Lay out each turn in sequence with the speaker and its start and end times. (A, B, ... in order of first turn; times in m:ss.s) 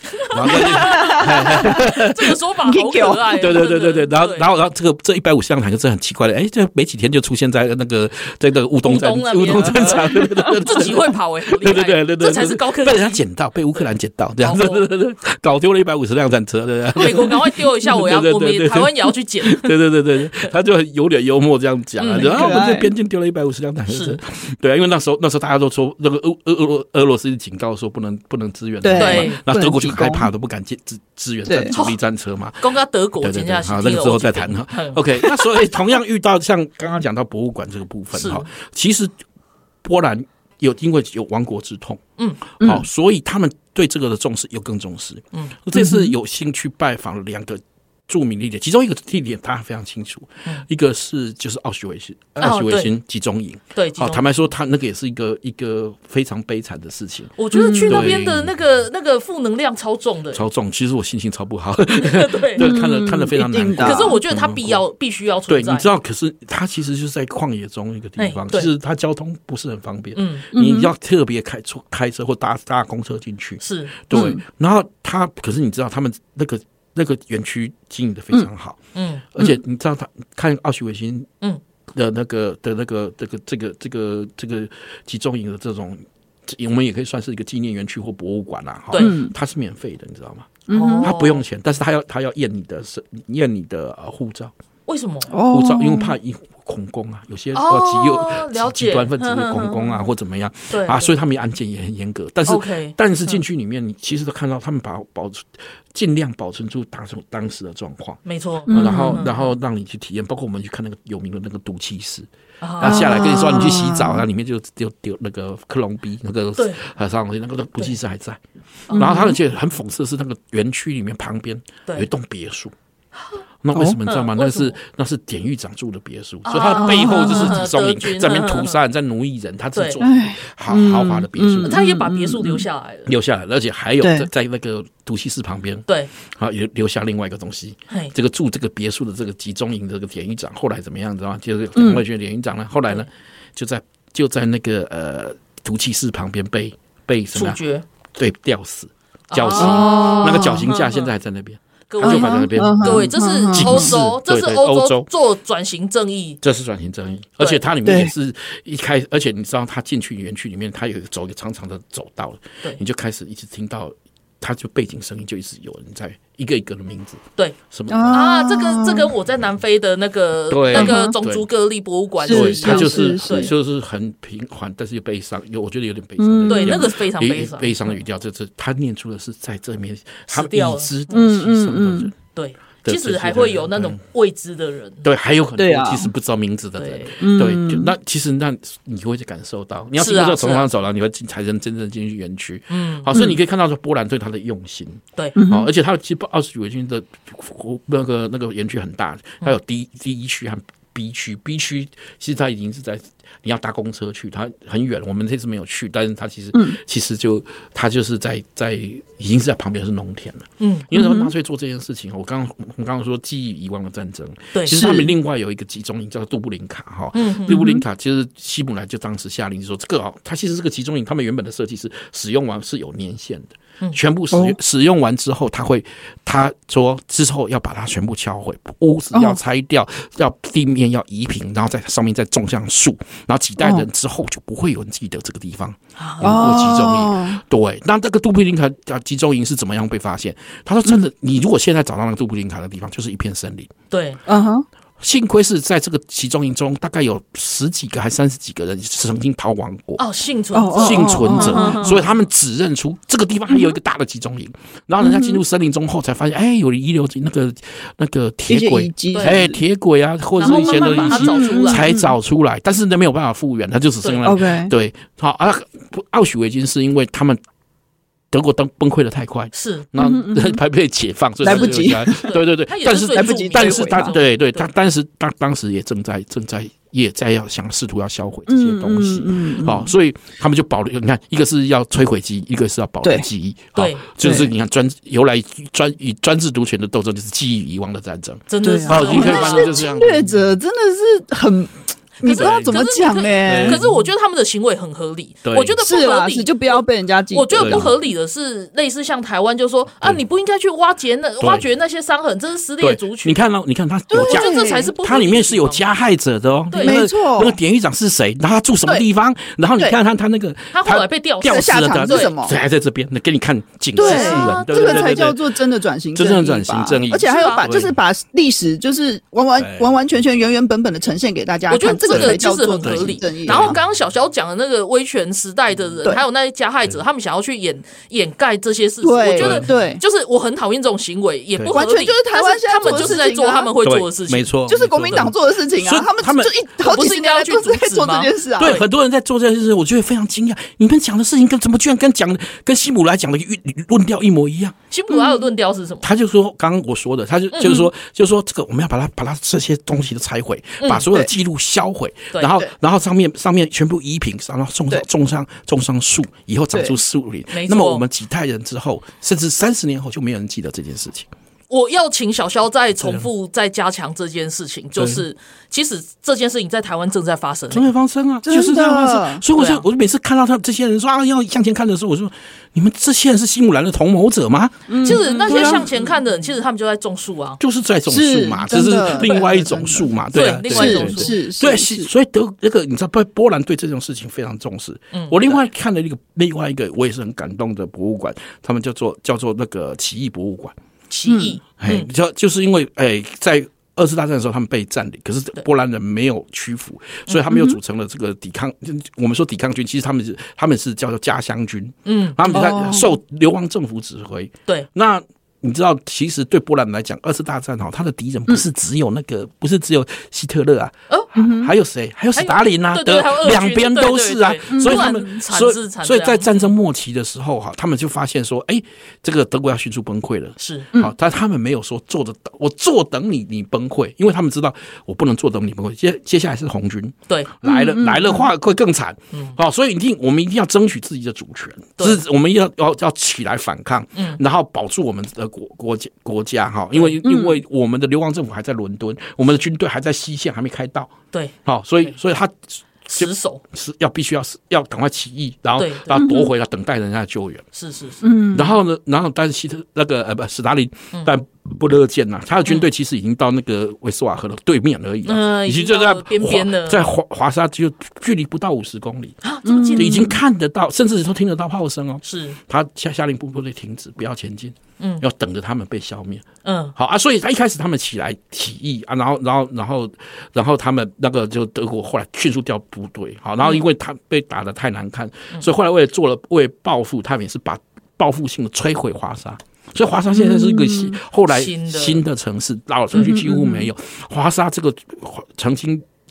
0:00.2-0:04.5 A
0:00.3-0:02.3 B
0:00.4-0:01.8 C
0:02.6-0:03.3 C
0:03.3-0:32.7 B
0:08.8-0:13.2 A
0:09.9-0:10.6 C
0:14.4-0:14.8 A
0:17.0-0:19.7 A
0:22.0-0:22.6 A
0:22.2-0:22.9 C
0:23.9-0:24.2 A
0:28.8-0:30.3 C
0:29.0-0:29.4 A
0:31.4-0:31.7 C
0:31.7-0:32.0 A
0:32.6-0:35.4 A
0:33.2-0:39.1 B
0:38.1-0:38.5 A
0:39.8-0:42.0 B
0:42.6-0:58.5 B
0:42.6-0:42.8 C
0:45.7-0:46.1 C
0:52.4-0:52.9 A
0:53.7-0:54.2 A
0:57.4-1:00.4 A
0:57.5-0:58.2 C
1:00.3-1:04.8 B
1:02.0-1:02.7 A
1:02.6-1:04.2 C
1:03.8-1:05.9 A
1:05.5-1:18.8 B
1:08.2-1:08.7 A
1:10.1-1:10.4 A
1:10.5-1:10.9 C
1:13.6-1:13.9 A
1:14.1-1:14.4 C
1:18.9-1:19.2 A
1:19.3-1:21.3 B
1:21.9-1:34.5 B
1:29.0-1:29.3 C
1:30.7-1:31.1 C
1:30.7-1:31.4 A
1:34.9-1:35.3 A
1:35.3-1:36.2 C
1:35.4-1:52.3 B
1:37.5-1:40.0 A
1:40.7-1:41.1 A
1:42.5-1:43.4 A
1:48.2-1:49.5 A
1:48.7-1:49.2 C
1:52.6-1:53.2 A
1:52.8-1:58.4 B
1:52.8-1:54.2 C
1:58.9-1:59.3 A
1:58.9-2:02.7 B
1:58.9-1:59.4 C
2:03.6-2:11.8 B
2:03.7-2:04.0 C
2:04.1-2:04.7 A
2:06.4-2:08.8 A
2:06.9-2:07.6 C
2:10.0-2:12.6 C
2:11.6-2:13.1 A
2:13.0-2:27.6 B
2:14.0-2:14.3 C
2:21.7-2:22.0 C
2:27.3-2:27.8 A
2:28.2-2:35.1 B
2:29.3-2:31.1 A
2:29.5-2:30.7 C
2:31.9-2:36.4 A
2:32.0-2:33.9 C
2:36.4-2:48.2 B
2:37.8-2:38.1 C
2:47.9-2:49.1 C
2:48.1-2:53.5 A
2:50.5-2:51.4 B
2:50.7-2:51.1 C
2:52.2-2:53.5 C
2:52.3-3:02.1 B
2:56.2-2:56.9 C
2:56.5-2:58.0 A
3:00.3-3:00.9 A
3:01.1-3:02.1 C
3:02.3-3:05.0 A
3:02.8-3:04.0 B
3:05.0-4:03.7 B
3:05.6-3:06.1 C
3:06.8-3:07.2 A
3:07.2-3:07.9 C
3:10.0-3:10.7 A
3:12.7-3:13.1 A
3:15.4-3:15.7 C
3:30.6-3:30.8 A
3:30.9-3:31.3 C
3:34.5-3:34.8 A
3:34.7-3:35.1 C
3:37.1-3:37.6 A
3:37.5-3:37.8 C
3:44.3-3:44.6 C
3:49.1-3:49.4 C
3:53.6-3:53.9 C
3:56.0-3:56.6 A
3:56.2-3:57.4 C
4:03.9-4:04.2 A
4:04.3-4:04.6 C
4:05.0-4:10.0 B
4:10.0-4:12.0 A
4:10.5-4:12.0 C
4:10.8-4:27.4 B
4:15.0-4:15.4 C
4:18.5-4:19.6 C
4:19.1-4:19.4 A
4:20.4-4:21.8 A
4:20.4-4:22.1 C
4:24.2-4:24.7 C
4:28.3-4:50.5 B
4:29.5-4:29.9 A
4:30.0-4:30.6 C
4:31.4-4:32.3 C
4:31.4-4:34.7 A
4:32.9-4:34.1 C
4:38.5-4:39.9 C
4:43.8-4:44.0 A
4:44.2-4:44.5 C
4:48.5-4:49.8 A
4:48.6-4:53.9 C
4:52.2-5:03.4 A
4:52.2-4:52.8 B
4:53.4-4:53.8 B
4:55.4-4:55.8 B
4:55.8-4:57.9 C
4:57.5-4:57.9 B
5:01.4-5:01.6 B
5:02.8-5:15.4 B
5:04.1-5:04.9 C
5:04.1-5:05.8 A
5:06.7-5:07.0 A
5:06.8-5:07.6 C
5:10.7-5:12.3 A
5:11.4-5:12.6 C
5:14.0-5:15.2 A
5:14.0-5:23.8 C
5:16.1-5:17.9 B
5:17.2-5:17.6 A
5:19.6-5:20.0 B
5:21.7-5:35.2 A
5:22.1-5:23.8 B
5:29.0-5:30.0 C
5:29.4-5:29.7 B
5:31.7-5:33.7 C
5:32.8-5:33.2 B
5:33.8-5:36.5 B
5:34.7-5:38.8 C
5:36.8-5:38.8 A
5:38.6-5:44.7 B
5:44.9-5:46.0 A
5:45.1-5:45.4 C
5:46.0-6:01.3 B
5:47.5-5:47.8 A
5:57.5-5:58.0 A
6:01.7-6:07.9 A
6:03.0-6:03.3 B
6:05.0-6:05.2 B
6:07.7-6:15.9 B
6:08.4-6:09.4 C
6:09.6-6:09.8 A
6:14.9-6:16.0 C
6:15.0-6:17.6 A
6:17.6-6:30.7 B
6:18.1-6:20.1 C
6:20.3-6:21.3 A
6:20.6-6:22.1 C
6:25.1-6:25.6 A
6:31.1-6:32.1 A
6:31.3-6:31.6 C
6:31.8-7:21.1 B
6:37.5-6:37.8 C
6:42.0-6:42.7 A
6:42.5-6:43.1 C
6:51.3-6:51.7 C
6:52.3-6:56.7 A
6:54.7-6:55.3 C
7:00.6-7:00.9 A
7:07.6-7:08.4 C
7:17.2-7:17.6 C
7:21.3-7:22.2 A
7:21.6-7:27.6 B
7:23.1-7:23.6 A
7:25.8-7:26.3 A
7:26.2-7:26.5 C
7:27.7-7:28.2 A
7:28.2-7:28.8 C
7:28.5-7:39.4 B
7:35.2-7:37.0 A
7:39.4-7:40.3 A
7:39.6-7:40.3 C
7:39.9-8:06.0 B
7:42.2-7:42.6 A
7:46.6-7:46.9 A
8:00.3-8:01.2 C
8:01.5-8:02.2 A
8:03.1-8:03.9 C